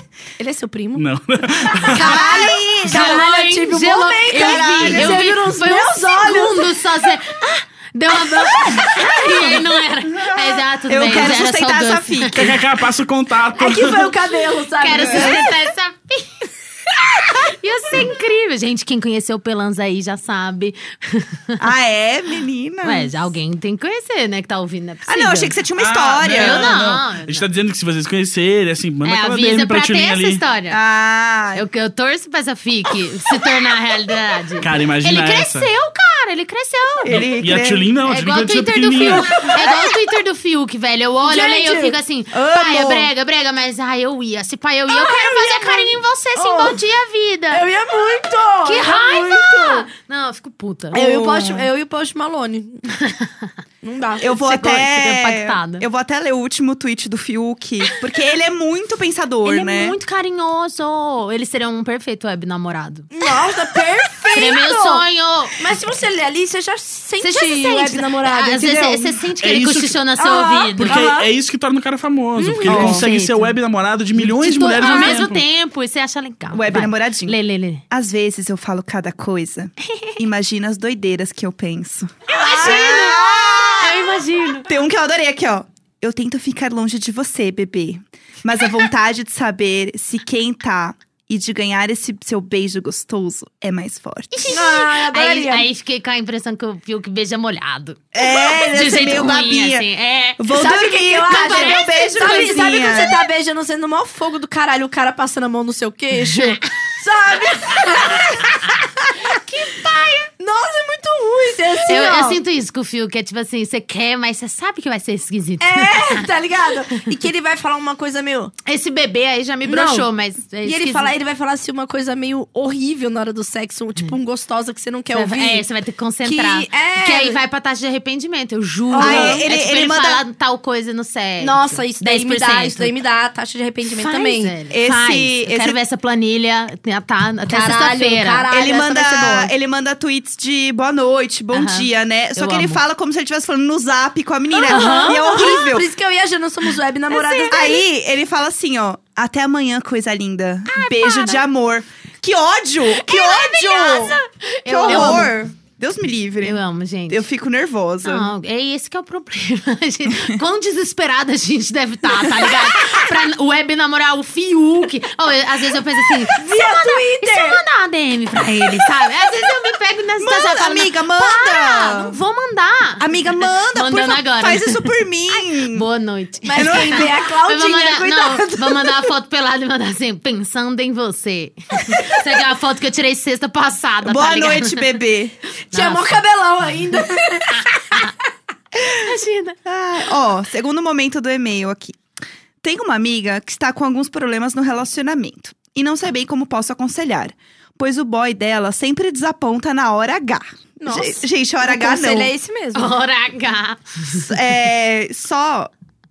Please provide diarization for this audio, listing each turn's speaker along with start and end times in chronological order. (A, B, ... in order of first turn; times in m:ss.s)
0:00.4-0:01.1 A
0:01.0-0:02.2 B
0:01.6-0:06.8 A
0:01.9-0:03.2 C
0:02.8-0:12.4 D
0:04.3-0:05.2 C
0:08.1-0:09.6 A
0:10.1-0:12.6 C
0:12.4-0:14.2 B
0:13.6-0:15.5 A
0:14.8-0:16.5 D
0:15.0-0:15.4 C
0:17.5-0:21.6 D
0:21.6-0:23.2 C
0:22.8-0:25.6 D
0:25.1-0:26.9 C
0:25.8-0:30.4 B
0:26.3-0:27.5 D
0:29.0-0:30.8 D
0:30.7-0:31.6 C
0:31.5-0:37.2 D
0:34.6-0:35.7 B
0:37.0-0:37.9 C
0:37.1-0:39.4 B
0:38.0-0:47.6 D
0:39.4-0:39.9 A
0:41.2-0:42.0 A
0:42.3-0:43.1 C
0:44.9-0:46.8 A
0:47.5-0:49.9 A
0:48.6-0:51.1 D
0:50.9-0:52.9 A
0:51.0-0:51.7 C
0:53.0-0:53.5 D
0:53.8-0:54.6 A
0:54.2-1:00.0 C
0:54.4-0:55.8 D
0:59.4-1:03.1 D
1:03.1-1:05.0 A
1:04.3-1:05.6 D
1:05.6-1:09.2 A
1:07.2-1:11.1 D
1:09.4-1:10.0 B
1:10.2-1:11.3 A
1:10.8-1:15.4 B
1:12.4-1:13.0 A
1:12.7-1:13.0 C
1:12.7-1:13.6 D
1:14.2-1:17.8 D
1:14.8-1:15.3 A
1:16.5-1:17.4 C
1:17.9-1:24.1 C
1:19.9-1:20.2 D
1:22.3-1:24.7 D
1:22.3-1:23.9 A
1:24.7-1:34.5 C
1:34.3-1:40.5 D
1:34.5-1:35.7 A
1:38.1-1:39.9 C
1:40.4-1:43.2 C
1:40.5-1:49.2 A
1:41.3-1:42.5 D
1:46.2-1:46.7 D
1:49.2-1:50.3 D
1:50.4-1:52.4 A
1:51.9-1:56.3 D
1:55.6-1:58.5 A
1:58.7-2:01.1 D
1:59.6-2:00.1 A
2:00.6-2:05.6 A
2:05.1-2:13.0 D
2:06.2-2:07.4 A
2:08.9-2:09.5 A
2:09.0-2:10.2 C
2:11.4-2:14.6 A
2:13.9-2:18.5 D
2:14.7-2:15.8 C
2:17.5-2:19.5 A
2:18.5-2:25.9 C
2:21.5-2:22.8 D
2:24.5-2:27.8 A
2:24.7-2:25.6 D
2:27.1-2:27.8 D
2:27.5-2:38.3 C
2:30.7-2:31.4 D
2:33.0-2:35.4 D
2:34.8-2:35.4 A
2:36.4-2:37.2 D
2:38.0-3:05.0 D
2:46.3-2:47.6 A
2:50.2-2:52.2 C
2:53.0-2:55.9 C
2:56.4-2:59.1 A
2:56.6-2:57.1 C
3:01.9-3:02.2 A
3:04.0-3:05.4 C
3:05.7-3:06.2 D
3:05.7-3:08.1 A
3:07.6-3:08.1 D
3:09.0-3:09.6 D
3:09.6-3:12.0 C
3:12.6-3:22.3 C
3:20.8-3:23.0 A
3:22.8-3:24.3 D
3:24.1-3:25.7 C